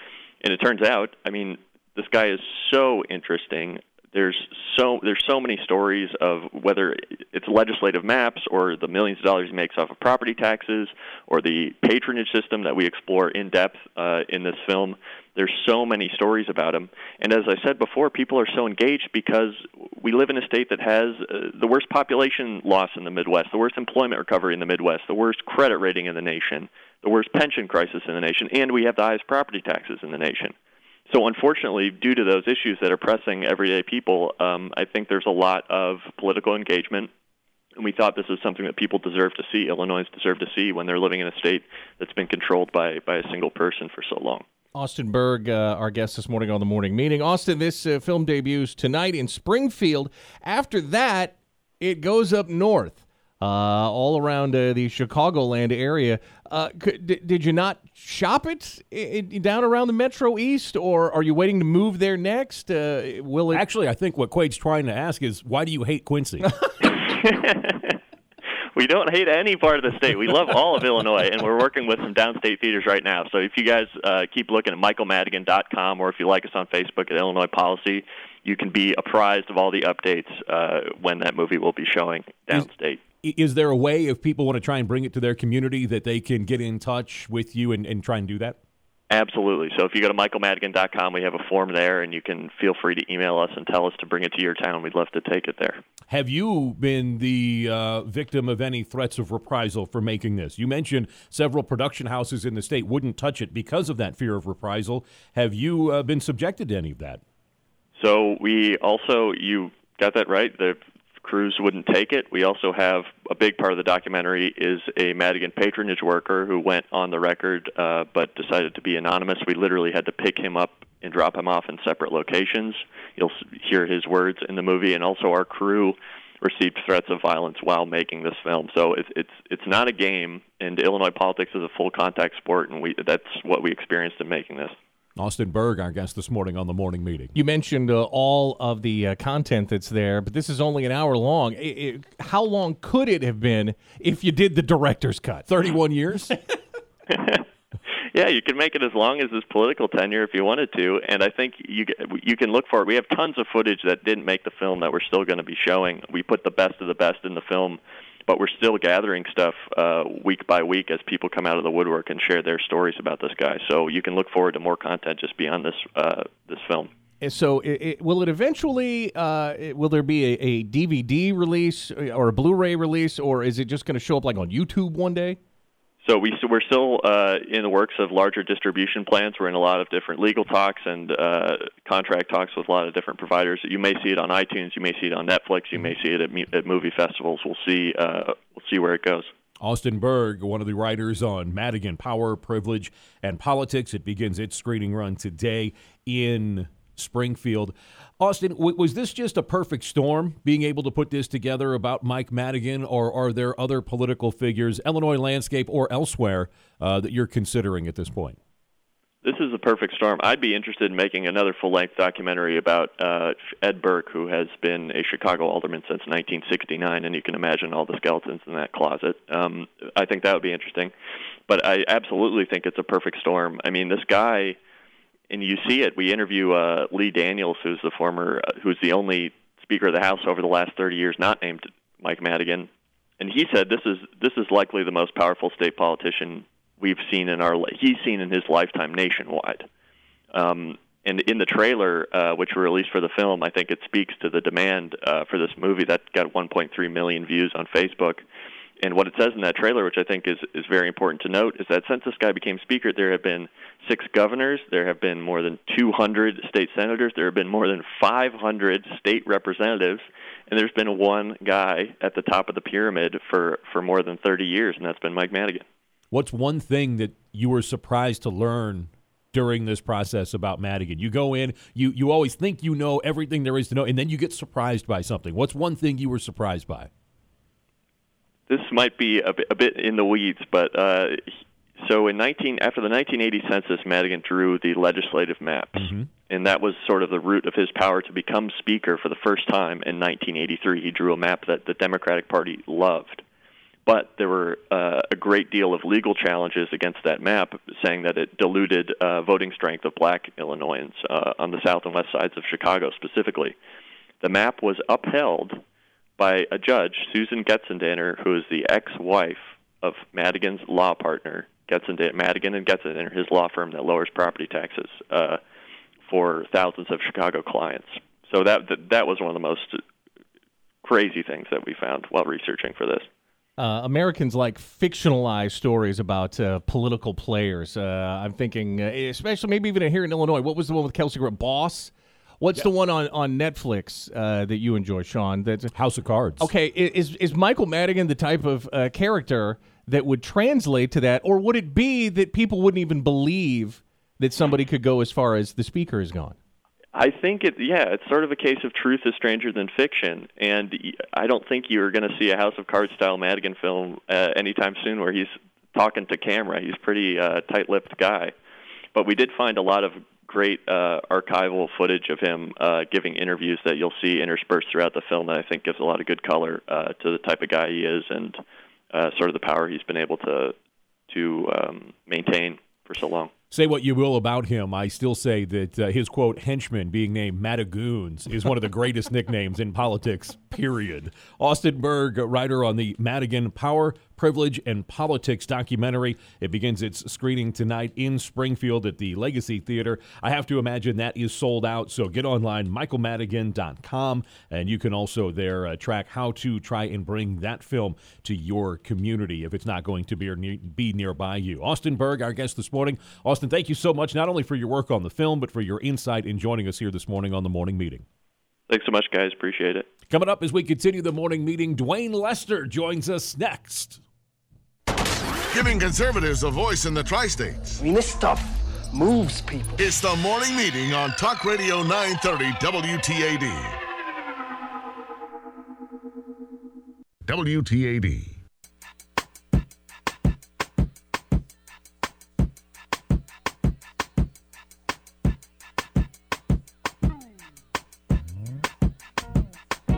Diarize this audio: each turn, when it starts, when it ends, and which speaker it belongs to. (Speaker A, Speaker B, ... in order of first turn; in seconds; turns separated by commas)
Speaker A: 0.4-30.5, Speaker A: 31.1-37.1, Speaker A: 37.8-44.4, Speaker B: 44.7-63.6, Speaker C: 63.5-66.5, Speaker A: 67.0-68.0, Speaker A: 68.7-83.0, Speaker C: 83.2-88.6, Speaker A: 89.1-95.8, Speaker C: 96.1-107.2, Speaker A: 108.0-134.8, Speaker C: 135.2-137.3, Speaker B: 137.3-145.4, Speaker C: 145.5-146.3, Speaker A: 147.1-147.4, Speaker A: 148.1-166.9, Speaker B: 167.2-175.4, Speaker A: 176.0-189.3, Speaker C: 189.6-208.4, Speaker A: 209.2-220.9, Speaker A: 221.5-224.6, Speaker A: 225.3-232.7, Speaker A: 233.2-239.7, Speaker A: 240.3-248.2, Speaker A: 248.8-265.6, Speaker C: 266.1-276.9, Speaker A: 278.5-293.2, Speaker C: 285.8-286.1, Speaker A: 293.9-303.6, Speaker A: 304.2-305.6, Speaker A: 306.2-315.4, Speaker A: 316.1-319.8, Speaker A: 320.8-323.1, Speaker B: 323.6-335.7, Speaker C: 335.7-336.5, Speaker B: 336.4-346.4, Speaker A: 346.9-358.3, Speaker A: 358.9-368.4, Speaker A: 368.9-370.5, Speaker A: 371.1-373.3, Speaker C: 373.5-408.0, Speaker A: 408.7-409.9, Speaker C: 410.1-414.0, Speaker D: 415.5-417.8, Speaker E: 417.8-419.9, Speaker D: 419.8-423.8, Speaker D: 427.2-428.4